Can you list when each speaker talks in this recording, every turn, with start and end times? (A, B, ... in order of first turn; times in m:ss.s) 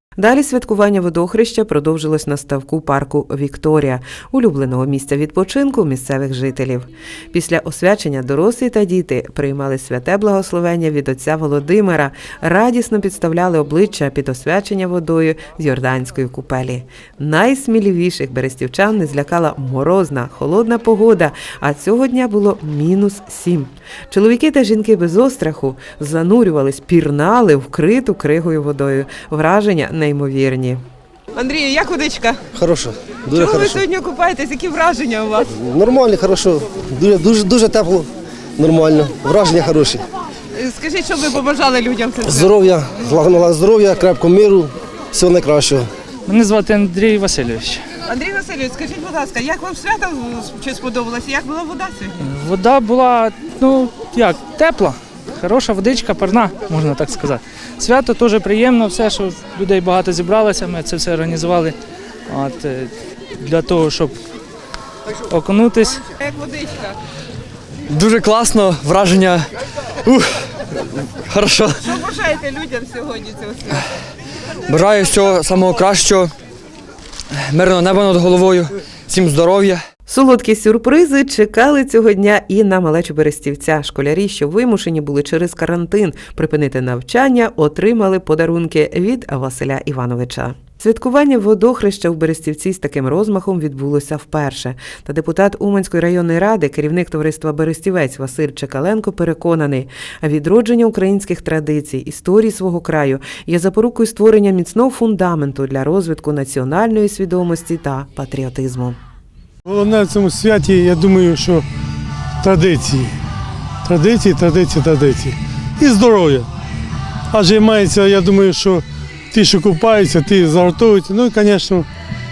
0:00.2-0:30.8 A
0:31.3-0:32.4 B
0:32.5-0:33.8 C
0:33.4-0:35.5 B
0:35.5-0:40.1 C
0:40.5-0:42.5 B
0:42.2-0:45.9 C
0:46.2-0:47.8 D
0:48.0-0:52.2 B
0:52.2-1:01.8 D
1:02.3-1:04.2 D
1:05.3-1:06.0 D
1:06.2-1:07.0 B
1:07.9-1:09.5 E
1:10.0-1:11.8 E
1:11.8-1:13.8 B
1:14.7-1:16.3 E
1:17.4-1:19.8 E
1:20.1-1:49.0 A
1:49.6-1:51.6 F
1:52.4-1:53.1 F
1:53.8-1:56.5 F
1:57.3-2:01.9 F